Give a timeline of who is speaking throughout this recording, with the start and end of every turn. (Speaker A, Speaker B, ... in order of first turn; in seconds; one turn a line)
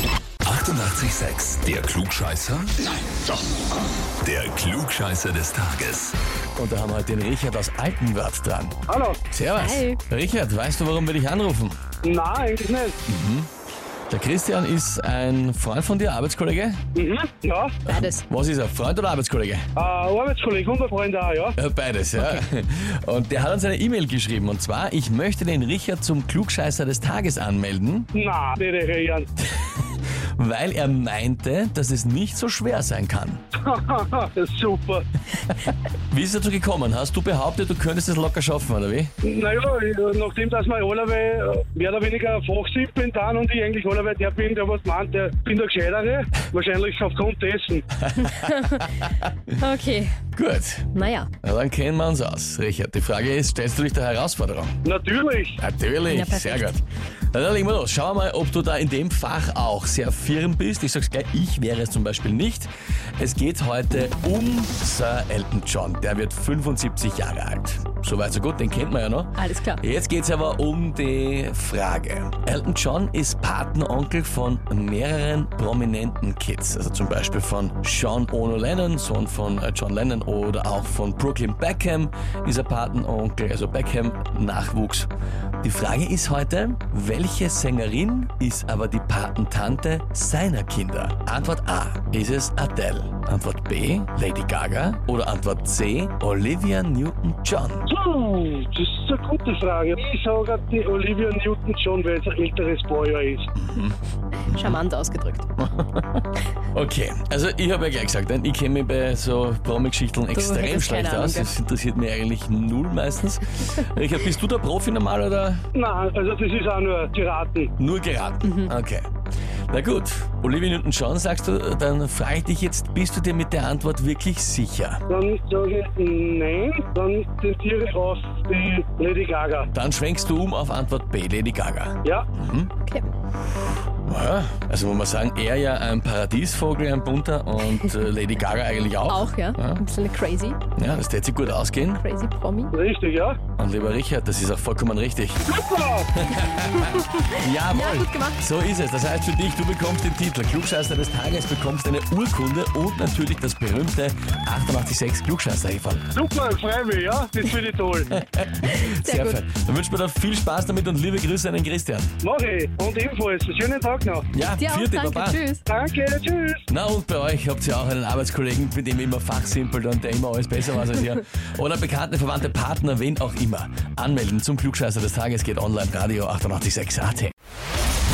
Speaker A: 0.5-2.7
Speaker A: 4.2-6.1
Speaker B: 6.6-8.8
Speaker C: 8.9-9.2
Speaker B: 9.3-11.8
Speaker D: 9.6-10.0
Speaker C: 12.0-13.0
Speaker B: 13.1-13.5
Speaker B: 14.1-16.8
Speaker C: 16.9-17.8
Speaker B: 17.9-19.7
Speaker D: 17.9-18.2
Speaker C: 19.8-21.6
Speaker B: 21.6-28.1
Speaker D: 22.2-22.4
Speaker C: 28.1-29.3
Speaker B: 30.4-33.4
Speaker C: 33.6-35.0
Speaker B: 35.5-39.1
Speaker C: 39.2-47.9
Speaker B: 48.0-49.2
Speaker D: 48.2-48.9
Speaker D: 49.6-50.1
Speaker B: 50.3-54.8
Speaker D: 50.9-51.3
Speaker C: 54.9-55.6
Speaker B: 55.6-85.1
Speaker D: 56.1-56.8
Speaker D: 69.3-69.8
Speaker B: 85.6-97.9
Speaker C: 97.9-103.5
Speaker B: 103.6-104.0
Speaker B: 104.5-104.8
Speaker D: 104.5-105.5
Speaker B: 105.6-115.6
Speaker D: 110.3-111.5
Speaker C: 115.7-117.7
Speaker B: 117.8-119.1
Speaker B: 119.7-125.0
Speaker C: 125.1-129.7
Speaker B: 129.7-132.7
Speaker B: 134.1-139.8
Speaker D: 139.1-140.6
Speaker B: 140.8-142.0
Speaker D: 141.9-142.7
Speaker C: 142.7-143.4
Speaker B: 143.6-145.4
Speaker C: 145.5-146.1
Speaker B: 146.2-156.1
Speaker D: 147.3-148.4
Speaker C: 156.2-158.1
Speaker B: 158.1-162.1
Speaker D: 158.7-159.4
Speaker C: 162.2-164.3
Speaker B: 164.3-165.4
Speaker D: 164.6-165.6
Speaker C: 165.7-166.6
Speaker B: 166.7-177.3